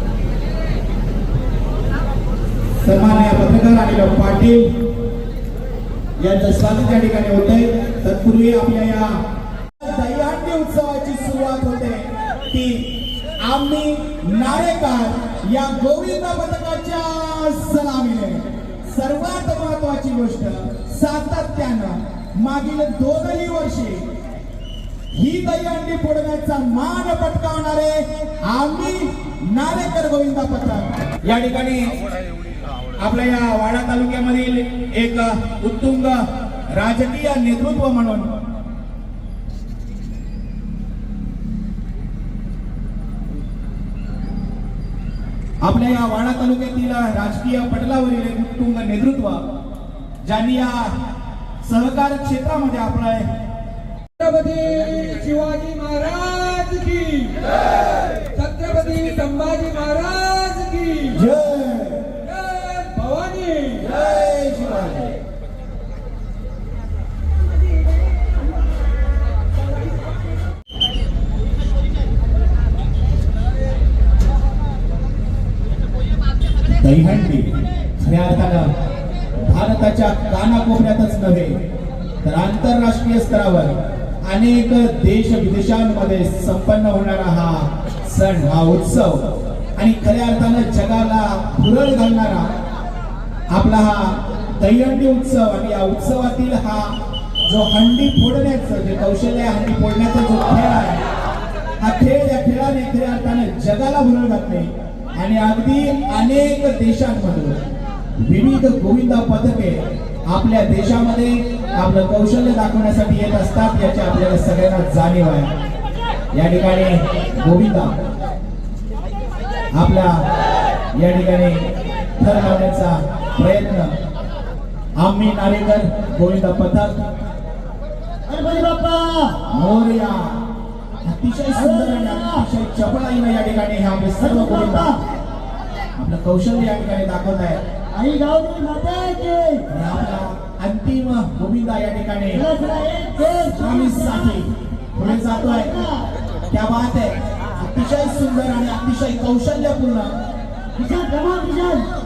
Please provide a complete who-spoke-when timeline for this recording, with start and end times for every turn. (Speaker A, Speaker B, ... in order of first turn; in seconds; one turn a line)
Speaker A: 2.8-4.7
Speaker A: 6.2-9.2
Speaker A: 9.8-24.1
Speaker A: 25.1-32.0
Speaker A: 33.0-36.2
Speaker A: 36.7-38.4
Speaker A: 45.6-49.4
Speaker A: 50.2-50.9
Speaker A: 51.6-53.3
Speaker B: 54.2-61.2
Speaker A: 61.1-62.2
Speaker B: 62.2-63.9
Speaker A: 63.8-65.1
Speaker A: 76.8-78.7
Speaker A: 79.4-81.5
Speaker A: 82.2-92.5
Speaker A: 93.5-101.0
Speaker A: 101.8-107.5
Speaker A: 108.2-115.5
Speaker A: 116.3-117.9
Speaker A: 119.7-120.2
Speaker A: 121.0-123.9
Speaker A: 125.0-127.0
Speaker C: 128.3-129.4
Speaker A: 129.5-130.4
Speaker A: 131.0-134.9
Speaker C: 131.5-132.4
Speaker C: 134.2-135.0
Speaker A: 136.0-137.6
Speaker C: 137.9-139.7
Speaker A: 139.7-142.5
Speaker C: 142.3-144.4
Speaker A: 143.5-145.8
Speaker C: 145.1-146.1
Speaker A: 146.5-150.1
Speaker C: 150.8-151.9